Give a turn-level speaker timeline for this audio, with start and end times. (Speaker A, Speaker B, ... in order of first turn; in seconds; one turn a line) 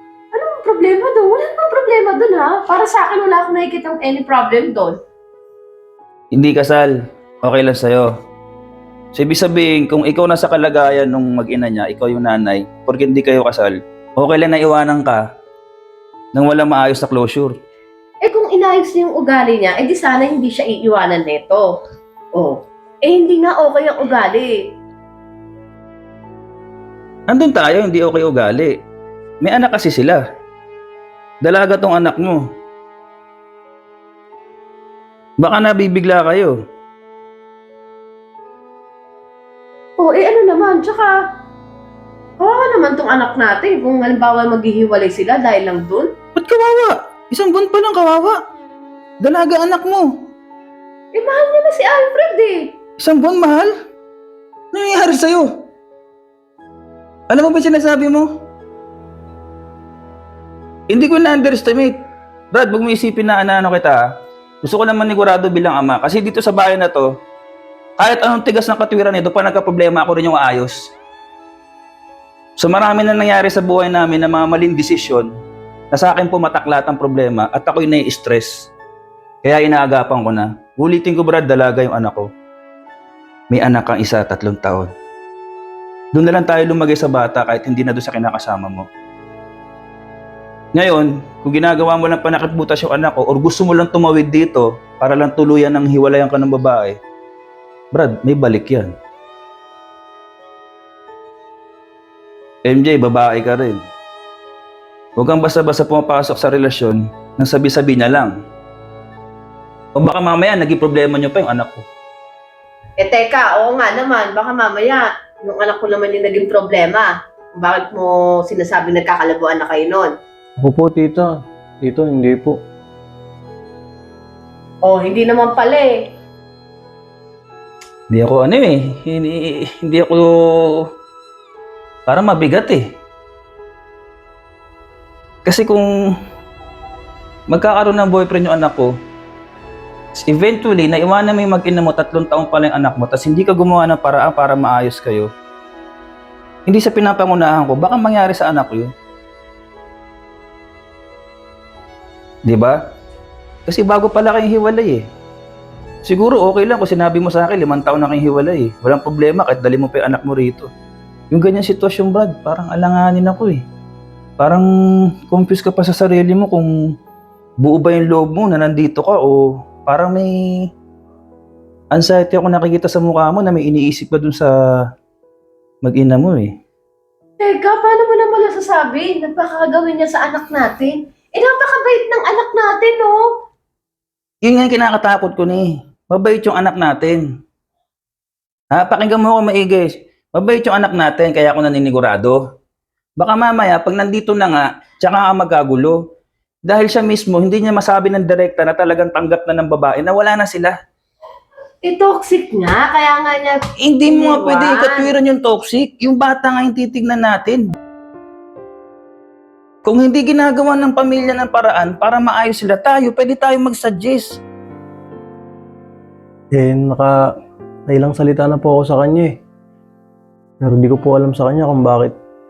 Speaker A: 0.3-5.0
Speaker B: 6.3-8.1
Speaker B: 9.1-15.2
Speaker B: 16.3-17.5
Speaker A: 18.2-21.7
Speaker A: 22.4-24.5
Speaker B: 27.3-28.7
Speaker B: 29.4-30.2
Speaker B: 31.4-32.4
Speaker B: 35.4-36.5
Speaker A: 40.0-41.1
Speaker A: 42.4-46.1
Speaker B: 46.4-48.4
Speaker B: 49.2-50.1
Speaker A: 51.1-52.6
Speaker B: 53.0-53.7
Speaker B: 54.7-55.5
Speaker B: 57.3-58.3
Speaker B: 60.9-61.9
Speaker B: 62.5-64.0
Speaker B: 64.6-67.1
Speaker B: 68.0-70.9
Speaker B: 72.6-75.3
Speaker B: 75.9-78.7
Speaker B: 79.4-82.3
Speaker B: 83.5-84.9
Speaker B: 86.1-88.8
Speaker B: 90.7-97.0
Speaker B: 97.9-98.9
Speaker B: 102.6-103.8
Speaker B: 105.2-108.3
Speaker B: 110.0-111.8
Speaker A: 113.0-120.1
Speaker C: 120.6-122.6
Speaker A: 124.8-125.9
Speaker B: 128.1-130.8
Speaker B: 132.1-132.8
Speaker B: 135.4-135.9
Speaker B: 137.5-138.9
Speaker B: 140.2-145.3
Speaker B: 146.7-148.9
Speaker B: 152.4-152.8
Speaker B: 153.7-155.1
Speaker B: 156.0-160.7
Speaker B: 161.3-163.6
Speaker B: 164.4-164.7
Speaker B: 165.3-166.7
Speaker B: 167.6-170.3
Speaker B: 171.9-174.5
Speaker B: 175.8-176.5
Speaker A: 177.4-183.2
Speaker B: 184.4-187.3
Speaker B: 188.7-192.4
Speaker B: 193.2-196.0
Speaker B: 196.6-200.7
Speaker A: 201.8-205.1
Speaker B: 203.8-207.6
Speaker B: 209.8-214.4
Speaker C: 216.5-217.3
Speaker C: 217.9-219.3
Speaker C: 220.6-222.2